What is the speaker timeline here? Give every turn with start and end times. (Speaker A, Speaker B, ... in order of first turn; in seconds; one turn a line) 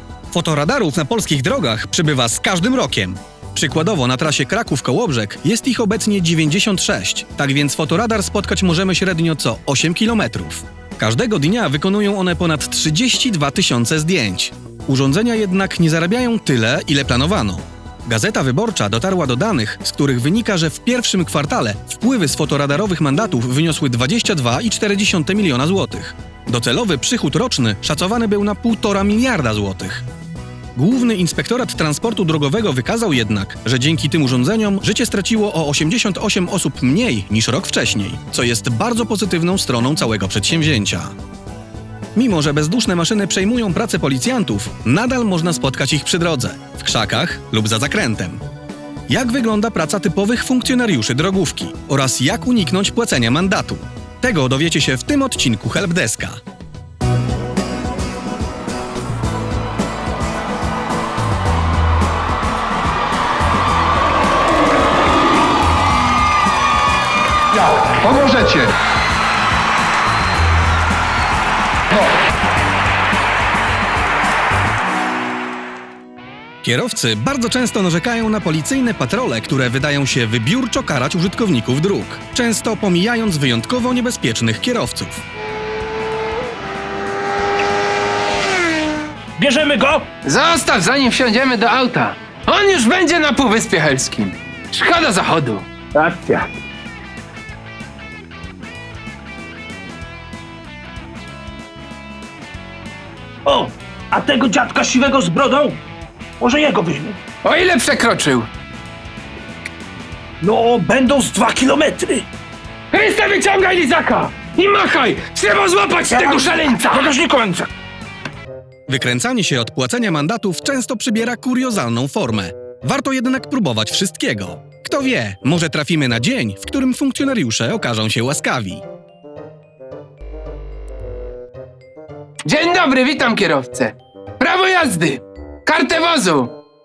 Speaker A: 0.3-30.0
Speaker A: 30.8-41.1
Speaker A: 42.1-48.4
Speaker A: 49.1-56.4
Speaker A: 76.6-85.2
Speaker B: 89.4-90.1
Speaker C: 90.2-95.7
Speaker B: 103.4-105.8
Speaker B: 106.4-107.2
Speaker C: 107.4-108.5
Speaker B: 110.4-112.3
Speaker C: 112.9-117.1
Speaker B: 116.1-117.7
Speaker A: 118.9-128.8
Speaker C: 132.4-136.6